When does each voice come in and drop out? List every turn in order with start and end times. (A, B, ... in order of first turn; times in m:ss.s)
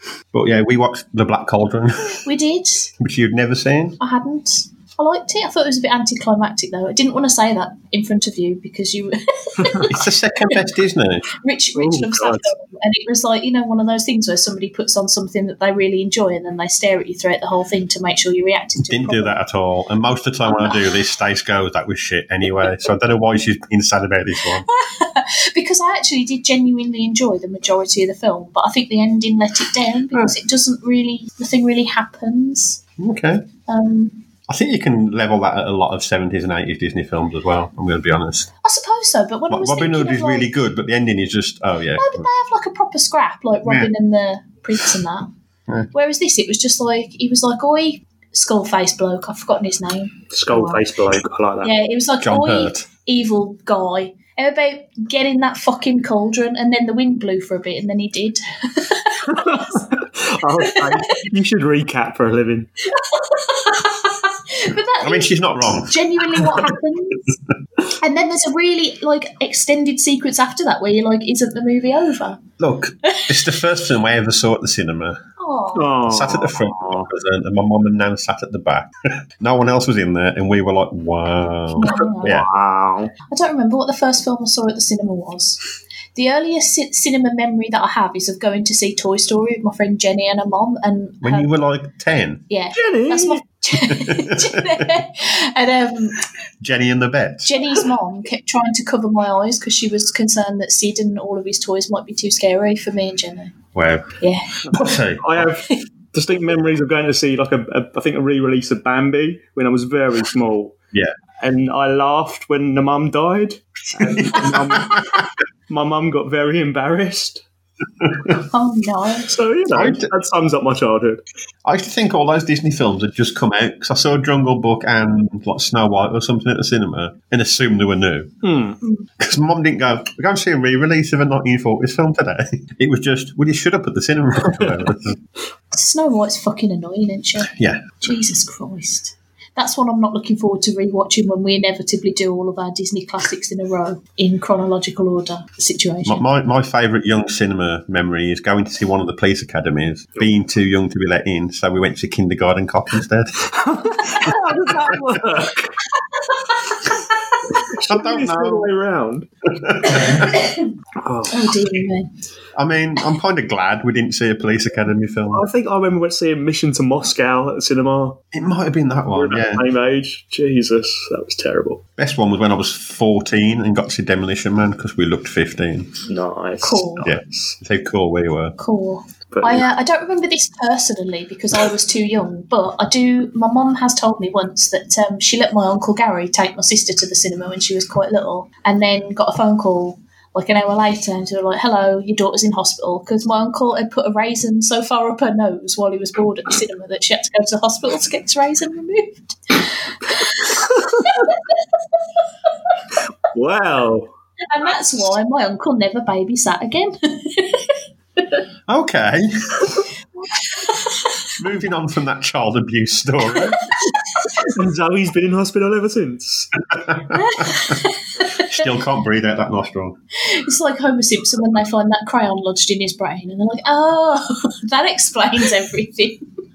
0:00.3-0:02.2 A
0:02.0-0:02.9 B
0:03.0-0:04.0 A
0:04.0-0:10.0 B
0:09.8-0:11.3 A
0:11.3-0:19.4 B
0:11.8-0:12.5 C
0:18.8-0:24.6 A
0:20.5-0:20.8 B
0:24.5-0:32.8 B
0:33.0-0:33.5 A
0:33.7-0:34.2 B
0:34.5-0:38.5 A
0:38.6-0:40.5 B
0:39.5-0:42.2 A
0:42.0-0:45.3 B
0:43.6-0:43.9 A
0:45.9-0:50.8 B
0:50.3-0:51.7 C
0:51.6-0:59.8 B
0:52.2-0:52.8 A
0:59.3-1:02.7 C
1:00.6-1:01.3 B
1:02.9-1:07.3 B
1:05.0-1:06.5 A
1:07.9-1:12.4 B
1:12.6-1:15.2 A
1:15.4-1:16.0 B
1:15.7-1:17.1 C
1:16.1-1:22.5 A
1:21.8-1:22.4 B
1:22.2-1:23.1 C
1:23.3-1:25.6 B
1:26.1-1:31.5 B
1:31.2-1:32.4 A
1:32.5-1:36.2 B
1:32.7-1:33.4 C
1:33.7-1:35.0 A
1:36.6-1:37.6 A
1:37.4-1:43.6 B
1:43.7-1:44.1 A
1:44.2-1:44.6 B
1:44.6-1:50.7 C
1:44.7-1:45.5 A
1:51.4-1:55.2 C
1:54.0-1:55.2 A
1:55.7-1:57.4 C
1:58.0-1:58.3 A
1:58.5-1:59.3 B
1:59.3-2:01.2 C
1:59.7-2:00.1 A
2:01.6-2:08.3 A
2:08.4-2:08.8 C
2:08.8-2:09.1 B
2:09.2-2:15.2 A
2:15.7-2:26.2 B
2:17.5-2:18.0 A
2:26.0-2:33.4 A
2:33.4-2:35.7 C
2:34.0-2:35.0 A
2:36.3-2:36.9 B
2:37.5-2:39.3 C
2:37.9-2:38.7 A
2:39.5-2:40.4 A
2:40.0-2:40.6 B
2:41.0-2:41.7 C
2:41.3-2:42.1 B
2:42.5-2:45.4 A
2:45.3-2:48.2 C
2:48.3-2:49.6 A
2:49.1-2:51.8 C
2:52.0-2:55.9 A
2:56.1-2:57.6 C
2:56.6-2:57.1 B
2:57.0-2:58.5 A
2:58.6-3:21.6 B
2:59.3-2:59.7 C
3:20.4-3:21.0 C
3:23.3-3:24.1 C
3:24.5-3:27.8 B
3:28.7-3:29.8 A
3:30.4-3:31.0 B
3:31.4-3:33.6 A
3:34.4-3:36.5 C
3:36.7-3:37.8 A
3:37.1-3:38.6 B
3:38.4-3:40.0 A
3:40.2-3:46.2 B